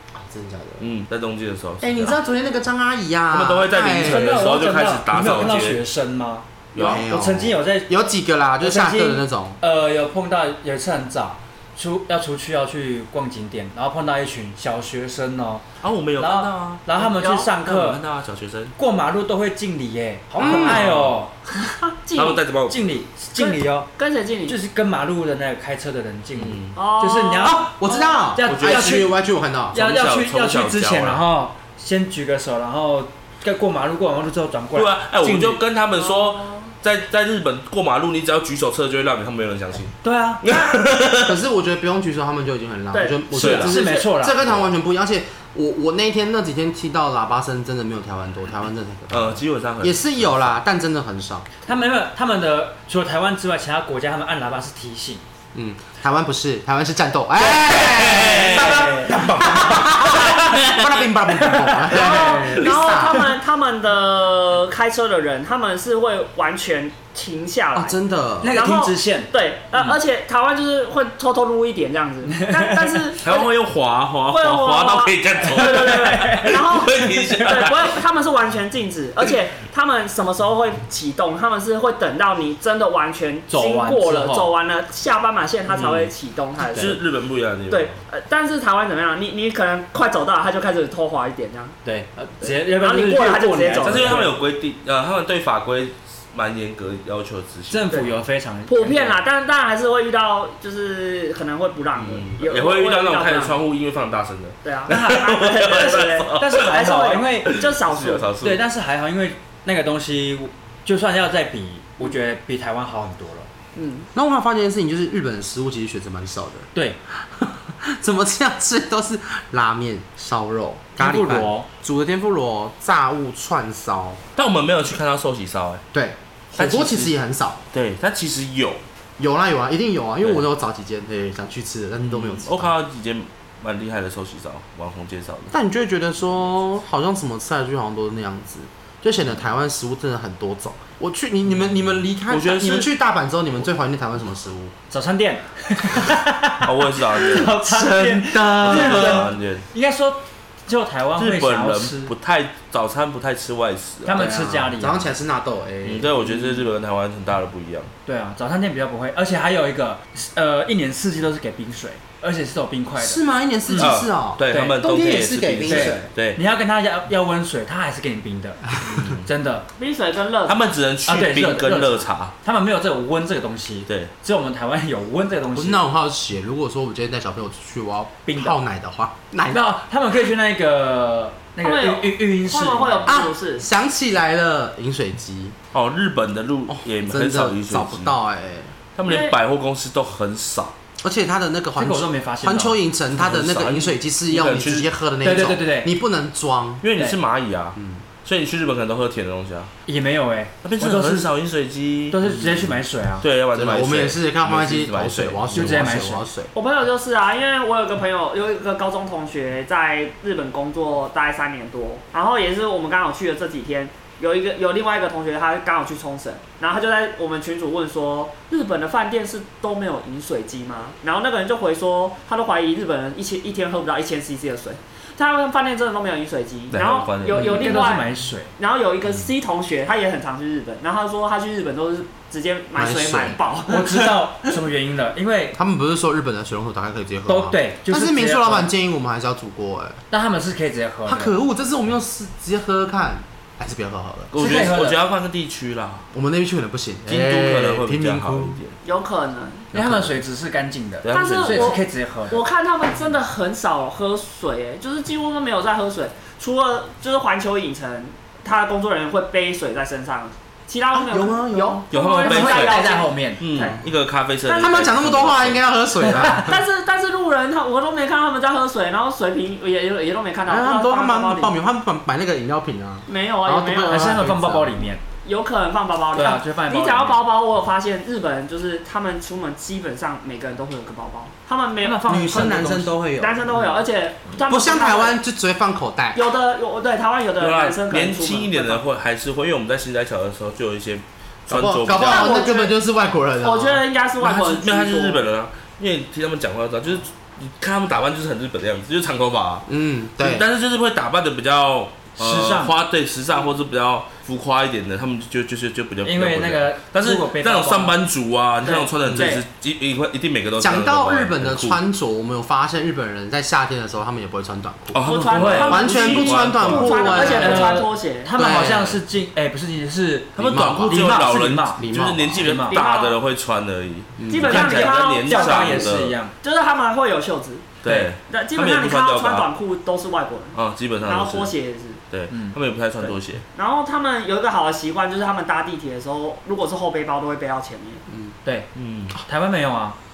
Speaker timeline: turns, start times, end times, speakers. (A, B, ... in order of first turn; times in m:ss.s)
0:00.1-0:00.9 A
0:00.8-0:02.2 B
0:01.8-0:04.5 A
0:03.3-0:05.8 B
0:04.0-0:07.9 C
0:06.7-0:07.1 B
0:06.8-0:09.6 A
0:08.6-0:15.6 C
0:15.8-0:16.9 B
0:16.2-0:18.0 C
0:17.0-0:17.5 D
0:17.6-0:18.8 B
0:18.8-0:21.3 C
0:20.4-0:20.8 A
0:20.4-0:21.2 B
0:21.7-0:22.4 D
0:22.2-0:22.9 B
0:22.7-0:23.9 C
0:23.4-0:24.6 D
0:24.5-0:27.8 C
0:26.4-0:26.8 B
0:26.8-0:28.2 D
0:27.5-0:29.8 A
0:28.3-0:29.1 C
0:28.4-0:29.1 B
0:29.7-0:35.6 C
0:29.8-0:31.2 B
0:34.8-0:41.4 B
0:35.9-0:36.7 D
0:40.0-0:40.4 C
0:41.2-0:51.5 A
0:42.9-0:44.1 D
0:43.3-0:44.4 C
0:43.4-0:43.7 B
0:49.1-0:50.4 B
0:51.7-0:55.2 C
0:55.5-1:03.3 A
0:57.4-1:01.0 B
0:58.2-1:00.5 C
0:58.4-0:59.5 D
1:01.4-1:02.3 C
1:01.9-1:08.0 D
1:07.8-1:08.6 A
1:08.4-1:10.0 C
1:08.5-1:13.5 D
1:12.4-1:13.0 C
1:13.2-1:18.0 B
1:14.3-1:27.0 D
1:15.5-1:16.6 C
1:23.5-1:24.5 C
1:25.7-1:26.1 B
1:26.6-1:28.0 B
1:27.7-1:31.8 D
1:31.8-1:34.3 C
1:32.4-1:34.3 D
1:33.8-1:37.9 B
1:37.7-1:39.2 C
1:38.7-1:43.6 D
1:42.0-1:46.7 B
1:44.6-1:48.3 D
1:44.9-1:47.6 C
1:47.4-1:48.6 B
1:48.4-1:53.5 C
1:53.8-1:54.1 D
1:54.1-2:04.2 A
1:56.7-1:57.0 C
2:01.0-2:01.7 C
2:04.4-2:05.8 B
2:05.9-2:07.6 A
2:06.6-2:07.1 B
2:07.7-2:08.8 B
2:09.2-2:12.7 A
2:12.0-2:15.5 B
2:15.5-2:24.7 A
2:22.3-2:22.9 B
2:24.9-2:32.1 C
2:26.6-2:29.7 B
2:28.6-2:29.2 A
2:31.2-2:34.3 B
2:34.1-2:35.1 C
2:34.1-2:36.6 A
2:35.8-2:37.9 B
2:38.0-2:44.0 C
2:43.0-2:46.1 A
2:43.8-2:46.4 B
2:44.5-2:44.8 C
2:45.7-2:49.7 C
2:48.8-2:49.3 B
2:49.8-2:50.6 D
2:50.5-2:52.3 B
2:51.1-2:55.8 C
2:55.6-2:59.6 A
2:58.3-2:58.6 C
2:59.5-3:03.1 C
3:01.6-3:03.6 D
3:03.1-3:05.6 A
3:05.7-3:08.1 B
3:06.7-3:08.8 A
3:09.0-3:10.8 B
3:09.0-3:09.4 D
3:11.0-3:16.8 A
3:11.8-3:12.8 C
3:13.1-3:14.9 B
3:15.2-3:15.9 C
3:16.8-3:19.7 B
3:17.8-3:18.0 A
3:19.9-3:21.3 C
3:20.6-3:25.9 B
3:22.1-3:23.2 C
3:23.6-3:26.5 A
3:25.5-3:26.2 C
3:26.5-3:53.9 D
3:46.7-3:47.7 B
3:47.3-3:48.5 C
3:52.8-3:53.4 A
3:53.7-3:55.6 C
3:55.5-4:00.0 A
3:57.3-3:58.7 C
4:00.1-4:01.3 C
4:01.1-4:04.3 A
4:04.3-4:06.1 B
4:04.3-4:05.0 C
4:06.1-4:08.6 A
4:07.1-4:08.8 B
4:08.8-4:09.7 D
4:09.7-4:10.2 A
4:09.7-4:12.4 C
4:11.0-4:11.8 B
4:11.1-4:23.8 D
4:20.9-4:21.9 A
4:21.9-4:22.8 B
4:22.2-4:23.4 C
4:23.4-4:25.6 B
4:23.6-4:23.8 A
4:24.5-4:24.9 D
4:24.6-4:26.6 A
4:26.2-4:31.5 D
4:30.5-4:34.8 A
4:33.1-4:34.2 D
4:33.9-4:35.0 C
4:35.2-4:45.2 D
4:36.1-4:37.2 C
4:41.8-4:42.9 C
4:42.0-4:43.6 A
4:44.5-4:46.2 A
4:46.1-4:48.8 D
4:47.4-4:52.4 B
4:51.5-4:53.8 A
4:51.9-4:52.7 D
4:53.4-4:55.2 D
4:54.2-4:59.7 B
4:59.7-5:00.5 A
5:00.2-5:11.8 B
5:02.2-5:02.8 C
5:06.0-5:08.0 C
5:08.6-5:09.4 D
5:09.0-5:09.4 A
5:10.6-5:15.1 A
5:14.9-5:17.7 B
5:15.0-5:18.3 D
5:15.3-5:15.8 C
5:15.6-5:17.8 A
5:17.2-5:21.8 C
5:18.4-5:19.0 A
5:20.4-5:26.2 B
5:20.4-5:22.6 A
5:22.3-5:22.8 C
5:22.7-5:23.2 D
5:24.2-5:24.7 A
5:24.3-5:27.7 D
5:24.5-5:26.3 C
5:27.8-5:29.5 B
5:27.8-5:28.1 C
5:28.3-5:32.0 D
5:30.6-5:31.5 B
5:32.1-5:33.4 B
5:32.3-5:32.6 C
5:33.0-5:38.0 D
5:38.1-5:38.4 A
5:38.4-5:38.7 C
5:38.8-5:39.2 B
5:39.2-5:40.0 C